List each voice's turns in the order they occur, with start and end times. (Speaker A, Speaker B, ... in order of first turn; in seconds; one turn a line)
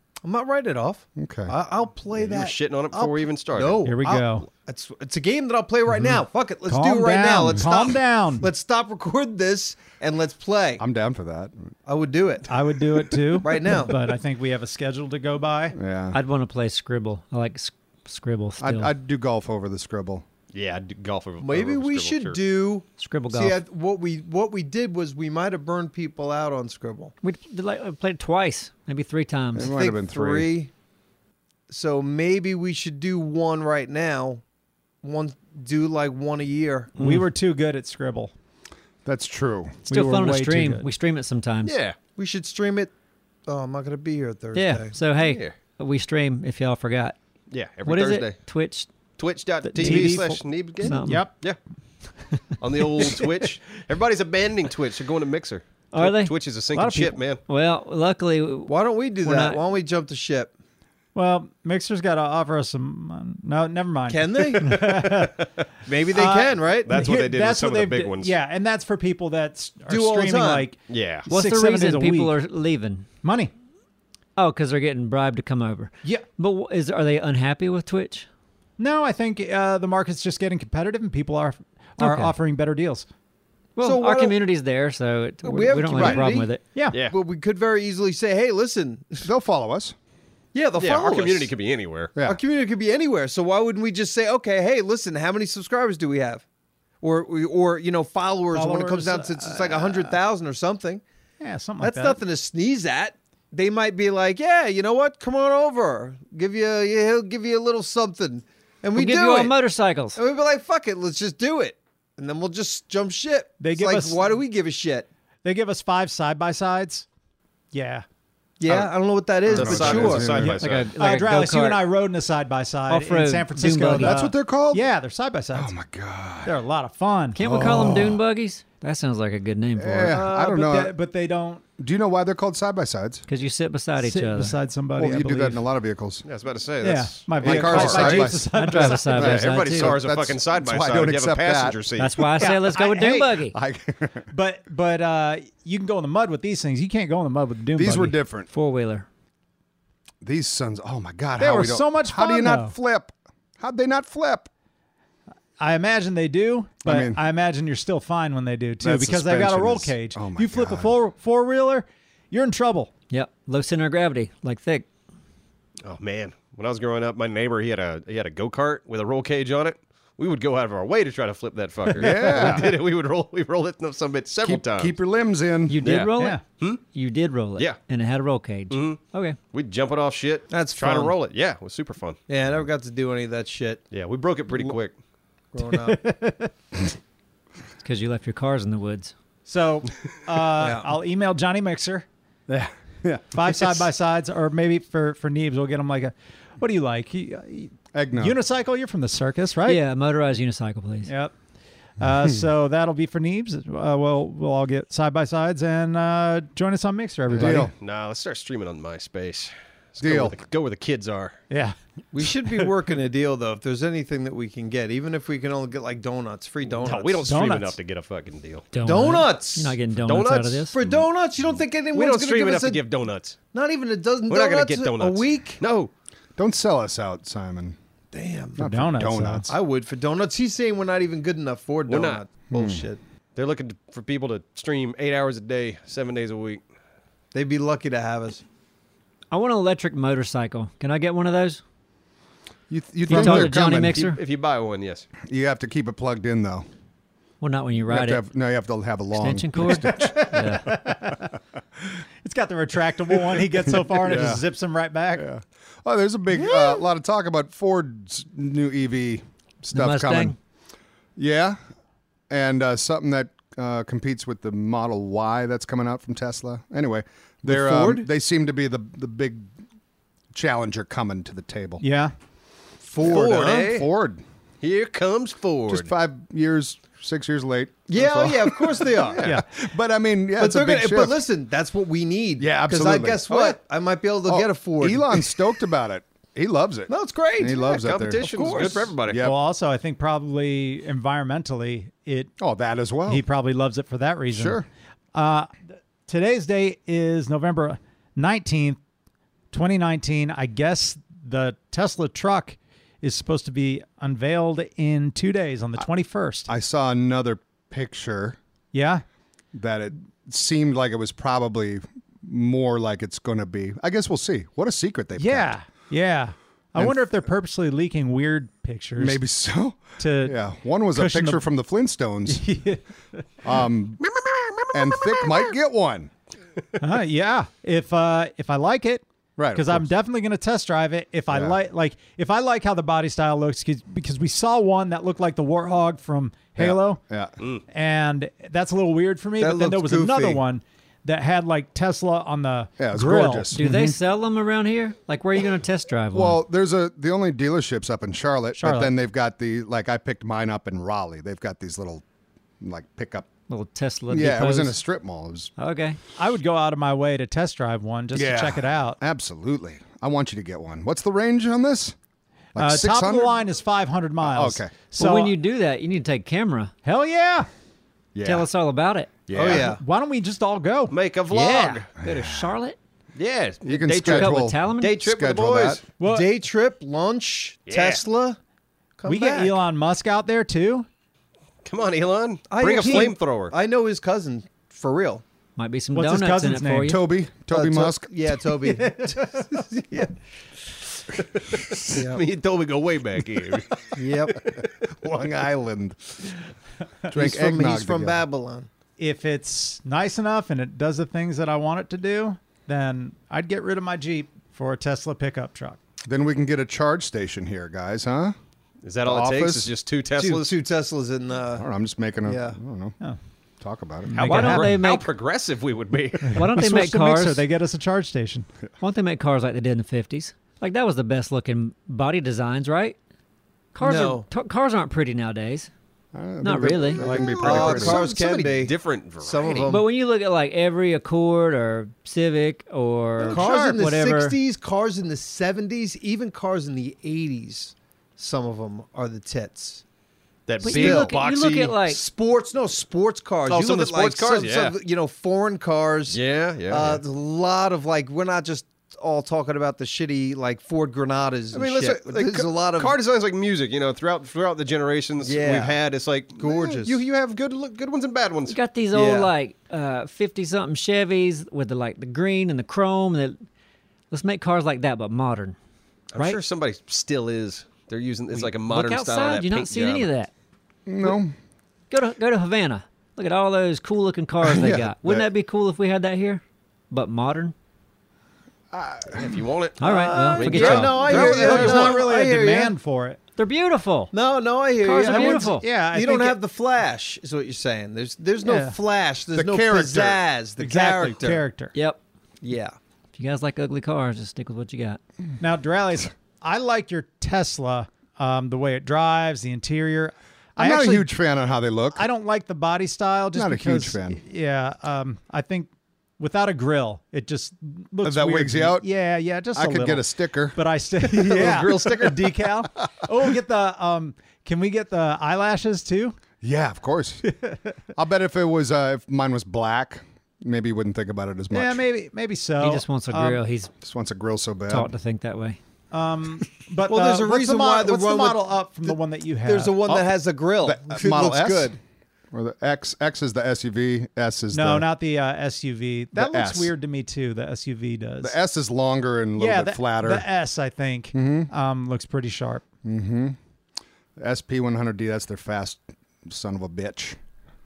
Speaker A: 0.2-10.8
Speaker B: 1.2-1.6
Speaker C: 2.1-3.9
Speaker D: 3.8-4.5
Speaker D: 6.0-8.5
Speaker B: 10.8-11.7
Speaker A: 11.9-12.5
Speaker D: 12.5-15.8
Speaker A: 13.4-14.0
Speaker B: 15.8-16.2
Speaker E: 16.1-18.9
Speaker B: 18.6-20.2
Speaker C: 20.5-22.4
Speaker A: 21.4-27.1
Speaker E: 23.0-23.6
Speaker E: 27.2-29.7
Speaker B: 29.5-30.5
Speaker A: 29.6-30.7
Speaker A: 31.7-34.4
Speaker A: 35.0-37.0
Speaker E: 37.0-37.3
Speaker D: 37.0-38.3
Speaker B: 39.0-39.8
Speaker D: 39.9-40.9
Speaker E: 39.9-41.8
Speaker C: 41.6-42.0
Speaker A: 42.2-42.9
Speaker A: 43.5-45.0
Speaker E: 44.5-47.2
Speaker C: 45.2-45.6
Speaker C: 47.5-48.4
Speaker E: 47.9-48.9
Speaker C: 49.2-51.6
Speaker E: 49.6-51.3
Speaker D: 49.8-51.3
Speaker C: 52.6-57.4
Speaker E: 55.9-56.3
Speaker D: 56.8-57.2
Speaker E: 57.5-59.6
Speaker A: 58.7-60.5
Speaker D: 61.1-65.4
Speaker A: 64.1-65.3
Speaker A: 65.9-67.0
Speaker D: 66.1-72.4
Speaker C: 66.8-68.3
Speaker A: 69.9-70.7
Speaker C: 70.9-71.3
Speaker E: 71.3-73.1
Speaker D: 73.2-73.5
Speaker E: 74.4-78.3
Speaker D: 78.8-83.1
Speaker E: 82.0-82.3
Speaker E: 83.8-86.8
Speaker A: 83.8-84.4
Speaker A: 85.4-86.5
Speaker B: 86.0-86.2
Speaker D: 86.7-87.0
Speaker C: 86.9-87.2
Speaker A: 87.1-89.3
Speaker B: 89.2-90.0
Speaker A: 90.5-91.5
Speaker C: 90.8-92.1
Speaker B: 92.2-92.4
Speaker A: 92.2-96.4
Speaker A: 97.0-101.0
Speaker D: 98.5-100.2
Speaker D: 101.4-102.2
Speaker A: 101.8-109.6
Speaker E: 109.0-110.2
Speaker A: 110.2-115.1
Speaker D: 113.6-114.3
Speaker D: 115.4-117.1
Speaker D: 117.7-118.0
Speaker A: 118.6-120.5
Speaker C: 118.7-118.9
Speaker C: 119.5-120.9
Speaker B: 119.5-120.6
Speaker E: 120.5-121.8
Speaker D: 121.0-125.8
Speaker E: 122.9-124.2
Speaker B: 124.0-124.8
Speaker B: 125.5-126.6
Speaker D: 126.4-127.9
Speaker E: 127.3-130.2
Speaker B: 127.4-128.2
Speaker B: 129.8-130.9
Speaker D: 130.0-131.6
Speaker B: 131.8-133.2
Speaker E: 133.3-134.6
Speaker D: 134.0-135.6
Speaker B: 135.0-136.2
Speaker C: 136.2-142.2
Speaker D: 136.8-139.1
Speaker B: 137.4-141.8
Speaker E: 137.8-140.0
Speaker E: 142.0-143.6
Speaker D: 142.4-143.4
Speaker B: 143.5-144.3
Speaker D: 144.3-148.2
Speaker B: 147.8-148.5
Speaker E: 148.5-149.1
Speaker B: 150.2-154.5
Speaker D: 151.4-152.8
Speaker D: 155.6-162.9
Speaker B: 156.8-157.2
Speaker B: 158.8-160.9
Speaker E: 163.1-164.9
Speaker C: 165.8-174.9
Speaker B: 172.0-172.7
Speaker D: 172.0-172.6
Speaker B: 174.4-175.8
Speaker E: 175.7-179.4
Speaker C: 175.8-176.8
Speaker C: 178.7-182.2
Speaker A: 180.5-181.1
Speaker A: 182.3-183.8
Speaker C: 183.9-184.9
Speaker A: 185.5-186.0
Speaker D: 185.6-186.5
Speaker E: 187.8-189.1
Speaker D: 189.5-192.1
Speaker A: 190.6-190.9
Speaker B: 192.5-193.8
Speaker D: 193.3-199.8
Speaker B: 197.9-198.4
Speaker E: 199.7-201.1
Speaker D: 201.1-201.3
Speaker D: 202.0-207.7
Speaker B: 207.3-207.7
Speaker C: 207.4-211.4
Speaker B: 210.0-210.4
Speaker D: 211.5-211.8
Speaker A: 212.1-217.3
Speaker C: 216.6-218.7
Speaker D: 217.2-217.8
Speaker E: 218.7-220.8
Speaker A: 218.8-219.8
Speaker C: 220.0-220.8
Speaker A: 220.7-222.9
Speaker C: 221.9-223.4
Speaker A: 223.5-225.6
Speaker C: 224.3-225.9
Speaker B: 226.4-227.8
Speaker A: 228.1-228.6
Speaker B: 228.6-229.5
Speaker D: 228.6-229.5
Speaker A: 229.5-233.0
Speaker C: 231.9-232.2
Speaker B: 232.5-232.8
Speaker C: 233.3-236.6
Speaker A: 237.3-238.4
Speaker E: 239.3-241.6
Speaker B: 242.7-244.2
Speaker E: 243.1-244.2
Speaker C: 243.1-245.1
Speaker B: 245.2-246.7
Speaker E: 247.4-248.2
Speaker B: 247.9-250.5
Speaker E: 249.2-250.7
Speaker D: 249.7-251.3
Speaker D: 252.2-255.3
Speaker B: 253.4-254.4
Speaker B: 255.2-260.4
Speaker D: 256.3-256.8
Speaker E: 259.7-260.4
Speaker B: 261.2-261.6
Speaker B: 262.3-269.5
Speaker A: 267.5-268.1
Speaker B: 270.3-271.8
Speaker D: 271.8-272.1
Speaker A: 272.8-273.8
Speaker B: 273.0-274.2
Speaker C: 273.1-273.8
Speaker C: 274.6-275.9
Speaker B: 275.7-281.2
Speaker A: 277.9-279.3
Speaker A: 280.4-285.4
Speaker B: 282.4-283.5
Speaker B: 284.3-288.3
Speaker A: 286.9-288.9
Speaker C: 287.7-289.3
Speaker B: 289.0-289.4
Speaker D: 289.2-292.3
Speaker B: 292.4-293.2
Speaker D: 293.1-294.6
Speaker B: 294.3-294.7
Speaker D: 295.1-298.8
Speaker D: 299.5-306.5
Speaker B: 306.5-308.4
Speaker D: 308.7-309.0
Speaker B: 309.5-315.5
Speaker D: 315.2-319.2
Speaker B: 316.8-317.2
Speaker B: 319.0-322.5
Speaker D: 320.0-321.4
Speaker D: 322.3-323.2
Speaker B: 323.4-324.0
Speaker C: 324.0-325.5
Speaker B: 324.7-326.1
Speaker D: 326.8-337.0
Speaker B: 329.4-329.9
Speaker B: 331.3-331.6
Speaker B: 336.6-337.3
Speaker D: 337.7-343.8
Speaker A: 339.4-340.4
Speaker B: 342.8-344.0
Speaker E: 343.5-346.4
Speaker B: 346.1-352.0
Speaker D: 348.6-348.9
Speaker B: 352.6-353.3
Speaker E: 353.5-354.8
Speaker B: 354.1-355.5
Speaker E: 355.6-356.0
Speaker D: 356.2-359.0
Speaker B: 358.1-362.0
Speaker B: 362.6-363.4
Speaker D: 362.6-365.4
Speaker B: 364.2-364.8
Speaker E: 365.0-366.7
Speaker D: 366.8-367.5
Speaker B: 368.1-368.5
Speaker E: 368.2-369.2
Speaker B: 369.3-369.7
Speaker C: 369.3-369.6
Speaker A: 369.3-369.8
Speaker D: 369.5-370.9
Speaker C: 370.9-371.9
Speaker E: 371.3-372.8
Speaker B: 372.0-372.5
Speaker C: 373.2-374.4
Speaker B: 373.6-375.8
Speaker E: 374.0-375.0
Speaker C: 374.9-375.8
Speaker A: 375.2-378.4
Speaker D: 376.0-376.3
Speaker C: 377.7-378.0
Speaker A: 379.0-379.6
Speaker D: 379.1-380.9
Speaker C: 381.6-383.5
Speaker A: 382.5-385.2
Speaker D: 382.8-383.1
Speaker E: 385.6-387.0
Speaker D: 385.9-387.0
Speaker B: 386.9-388.3
Speaker A: 387.5-390.1
Speaker D: 388.6-389.5
Speaker C: 391.2-395.3
Speaker A: 391.9-392.2
Speaker A: 393.9-394.5
Speaker B: 395.0-396.0
Speaker B: 397.1-398.2
Speaker A: 397.1-398.7
Speaker D: 399.0-405.8
Speaker B: 406.1-408.4
Speaker C: 408.8-410.6
Speaker B: 409.0-409.7
Speaker A: 410.2-411.7
Speaker B: 411.6-412.9
Speaker A: 412.2-412.6
Speaker B: 413.6-414.1
Speaker D: 414.1-414.8
Speaker E: 414.2-415.1
Speaker C: 414.2-416.5
Speaker D: 416.3-418.5
Speaker E: 416.3-417.4
Speaker E: 418.8-423.0
Speaker E: 423.8-425.7
Speaker A: 423.8-424.3
Speaker B: 426.1-428.0
Speaker E: 426.4-427.0
Speaker A: 427.0-429.9
Speaker C: 427.1-429.8
Speaker E: 429.6-434.4
Speaker A: 433.2-439.8
Speaker C: 433.3-433.6
Speaker C: 440.5-441.8
Speaker E: 440.6-442.0
Speaker A: 440.6-441.2
Speaker A: 441.8-452.9
Speaker C: 443.5-444.8
Speaker C: 446.1-447.0
Speaker C: 451.5-458.6
Speaker A: 455.2-455.8
Speaker A: 456.4-457.0
Speaker E: 458.5-463.4
Speaker A: 458.9-459.3
Speaker E: 464.1-465.6
Speaker C: 466.1-470.1
Speaker E: 468.4-470.3
Speaker B: 470.9-471.3
Speaker E: 471.9-477.5
Speaker B: 474.4-475.3
Speaker B: 478.7-479.4
Speaker C: 479.1-482.0
Speaker E: 479.8-481.2
Speaker A: 479.9-482.8
Speaker D: 480.9-483.2
Speaker E: 483.4-484.1
Speaker A: 484.1-491.4
Speaker E: 484.8-485.7
Speaker D: 485.0-486.4
Speaker D: 488.4-488.8
Speaker B: 489.3-490.2
Speaker D: 490.6-491.7
Speaker E: 491.7-492.0
Speaker A: 492.4-492.8
Speaker E: 493.1-495.0
Speaker D: 495.4-501.1
Speaker B: 500.6-502.1
Speaker D: 501.9-516.2
Speaker B: 503.3-504.2
Speaker B: 508.0-508.9
Speaker B: 509.6-510.6
Speaker C: 511.0-512.5
Speaker B: 516.4-517.3
Speaker B: 517.9-521.8
Speaker D: 521.5-523.4
Speaker E: 522.6-523.7
Speaker B: 523.8-524.9
Speaker E: 524.7-525.6
Speaker D: 525.9-529.8
Speaker A: 526.9-531.8
Speaker B: 529.9-531.8
Speaker B: 532.3-534.9
Speaker D: 534.5-538.4
Speaker B: 536.1-536.7
Speaker B: 538.2-540.3
Speaker D: 539.4-542.6
Speaker B: 541.1-541.5
Speaker B: 542.8-543.4
Speaker B: 544.2-547.2